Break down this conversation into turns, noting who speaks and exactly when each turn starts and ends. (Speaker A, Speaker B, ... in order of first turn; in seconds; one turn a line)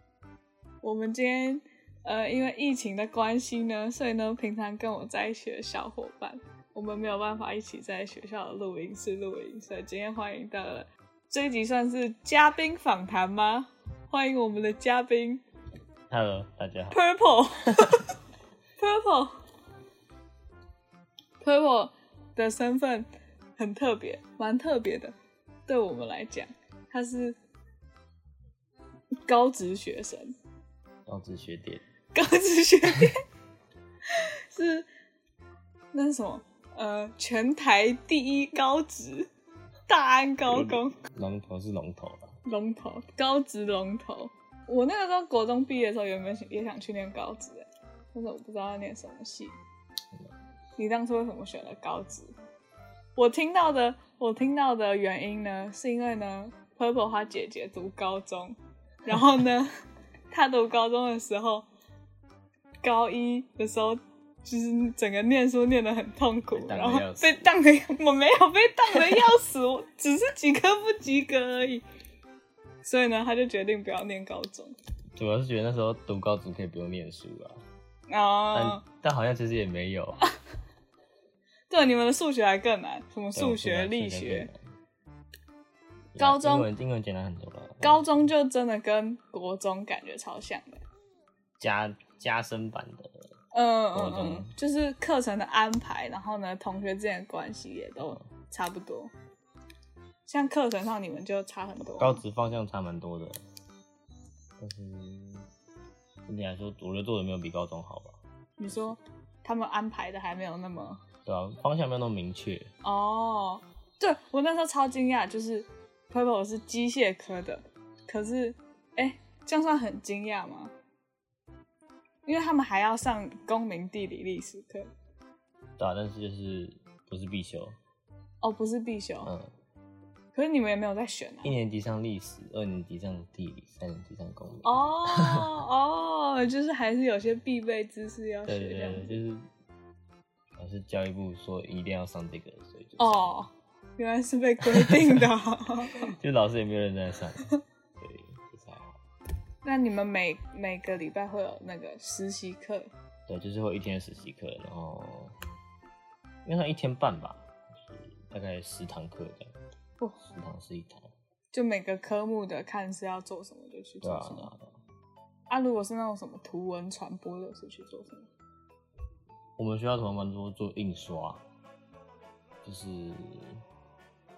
Speaker A: 0.8-15.4
Speaker B: 16.1-17.0
Speaker A: 16.9-18.0
Speaker A: 18.8-19.4
Speaker A: 21.4-25.1
Speaker A: 25.7-27.4
Speaker A: 29.2-30.4
Speaker B: 31.1-31.8
Speaker A: 32.1-33.2
Speaker A: 34.1-34.9
Speaker A: 35.9-39.3
Speaker A: 39.9-41.0
Speaker B: 40.5-42.3
Speaker A: 42.4-49.5
Speaker A: 50.8-52.3
Speaker A: 53.1-59.7
Speaker A: 60.3-61.6
Speaker A: 62.8-71.8
Speaker B: 66.5-67.5
Speaker A: 72.8-74.7
Speaker B: 75.2-77.6
Speaker A: 78.1-78.8
Speaker B: 78.5-80.2
Speaker A: 81.7-84.5
Speaker B: 83.3-84.6
Speaker B: 86.1-88.0
Speaker A: 86.2-86.7
Speaker A: 87.8-90.8
Speaker B: 91.6-93.2
Speaker A: 93.5-99.1
Speaker B: 93.9-94.5
Speaker A: 100.3-102.2
Speaker B: 102.0-103.4
Speaker B: 104.6-105.5
Speaker B: 106.2-109.0
Speaker A: 108.6-111.0
Speaker B: 111.2-112.7
Speaker A: 112.8-120.7
Speaker A: 122.2-124.9
Speaker B: 125.8-127.8
Speaker A: 128.4-129.3
Speaker B: 129.2-129.5
Speaker A: 130.3-131.5
Speaker B: 131.4-135.5
Speaker A: 134.6-139.1
Speaker B: 138.4-139.5
Speaker B: 140.6-143.3
Speaker A: 143.0-146.1
Speaker B: 144.7-145.2
Speaker B: 145.9-147.5
Speaker B: 148.0-149.0
Speaker A: 149.6-152.9
Speaker B: 153.3-155.3
Speaker B: 156.4-159.5
Speaker B: 160.2-161.1
Speaker A: 161.5-164.5
Speaker B: 164.0-164.7
Speaker A: 165.5-168.3
Speaker B: 169.6-171.4
Speaker B: 172.6-173.6